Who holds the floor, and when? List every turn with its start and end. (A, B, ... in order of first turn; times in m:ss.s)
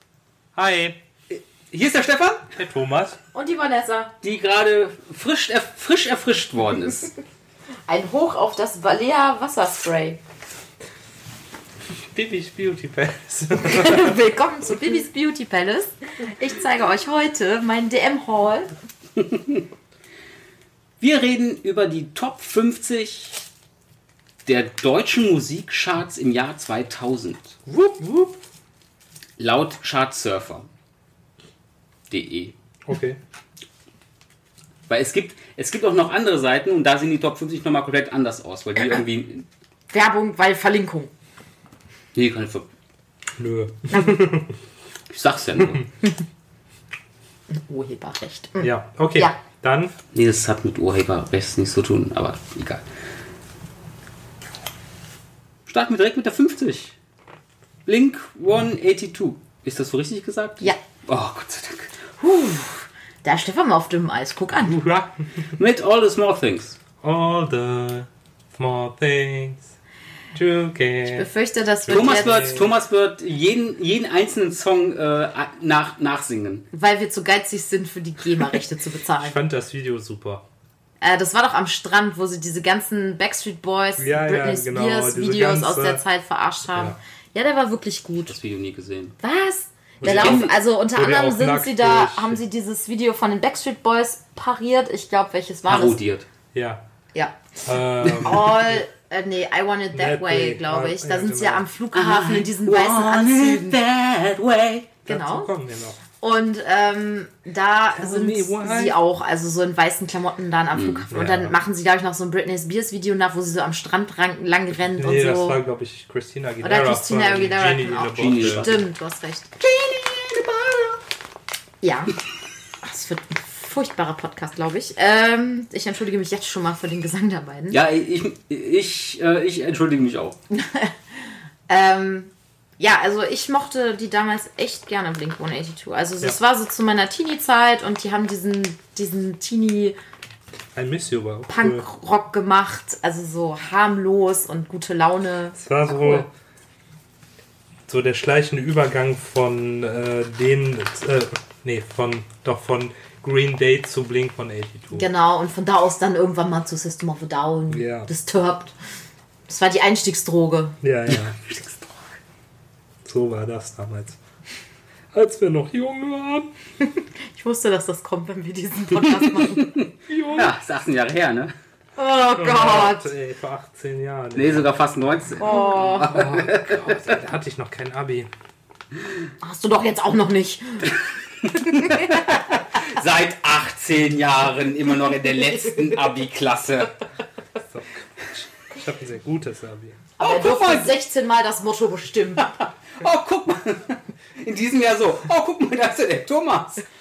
0:00.6-0:01.0 A
0:01.3-0:02.5 B
0:02.5-0:03.2 A
0:03.3-0:04.1 C
0:04.2-0:07.1 B
0:07.9-0:10.2 C
0:12.1-0:14.2 A
0:13.6-0:18.7 C
0:19.2-0:19.6 B
0:21.0-0:23.4 B
0:24.5-0:27.8 B
0:27.8-0:28.3 A
0:29.4-0:30.7 B
0:32.1-0:32.5 B
0:32.9-0:33.2 A
0:34.9-0:39.5 B
0:39.9-0:41.1 C
0:42.1-0:42.7 B
0:43.4-0:44.5 A
0:43.9-0:44.3 C
0:45.1-0:45.9 B
0:47.5-0:49.4 C
0:48.6-0:49.9 A
0:50.1-0:52.8 B
0:55.7-0:57.0 B
0:57.9-1:01.9 B
1:02.2-1:04.8 C
1:04.6-1:05.2 A
1:05.5-1:06.8 B
1:07.0-1:09.7 A
1:10.3-1:11.3 A
1:11.1-1:12.7 C
1:11.8-1:12.7 A
1:11.9-1:16.7 B
1:16.7-1:19.4 C
1:19.2-1:20.4 A
1:21.0-1:28.4 C
1:24.0-1:26.0 A
1:28.3-1:29.2 B
1:29.2-1:36.0 C
1:30.0-1:32.4 A
1:30.0-1:30.5 B
1:35.7-1:36.3 B
1:36.5-1:36.8 A
1:37.1-1:37.4 C
1:37.7-1:38.8 A
1:38.0-1:38.3 B
1:38.2-1:43.8 C
1:39.9-1:41.7 A
1:41.9-1:44.9 B
1:45.0-1:45.5 C
1:45.1-1:46.0 A
1:46.2-1:55.6 C
1:48.0-1:49.0 A
1:50.8-1:51.1 B
1:51.1-1:51.6 A
1:54.9-1:58.8 A
1:56.6-1:59.5 C
1:58.2-1:58.8 B
1:59.6-2:01.0 B
2:01.8-2:02.1 C
2:02.8-2:07.8 C
2:07.7-2:10.4 B
2:10.5-2:20.0 C
2:20.8-2:21.8 A
2:21.5-2:26.3 C
2:25.6-2:26.3 A
2:27.9-2:35.1 A
2:34.9-2:38.7 C
2:37.7-2:38.1 A
2:39.5-2:40.8 C
2:40.8-2:41.4 A
2:41.1-2:42.1 B
2:43.0-2:44.2 A
2:45.1-2:46.5 A
2:46.9-2:49.8 C
2:49.0-2:51.5 B
2:50.1-2:50.5 A
2:52.0-2:53.1 C
2:52.4-2:54.7 A
2:54.4-2:57.2 B
2:55.4-2:56.1 C
2:56.1-2:58.3 A
2:59.4-3:00.9 C
3:01.5-3:07.0 B
3:01.6-3:02.3 C
3:07.7-3:10.0 A
3:10.2-3:12.6 C
3:10.2-3:10.9 B
3:12.6-3:16.8 B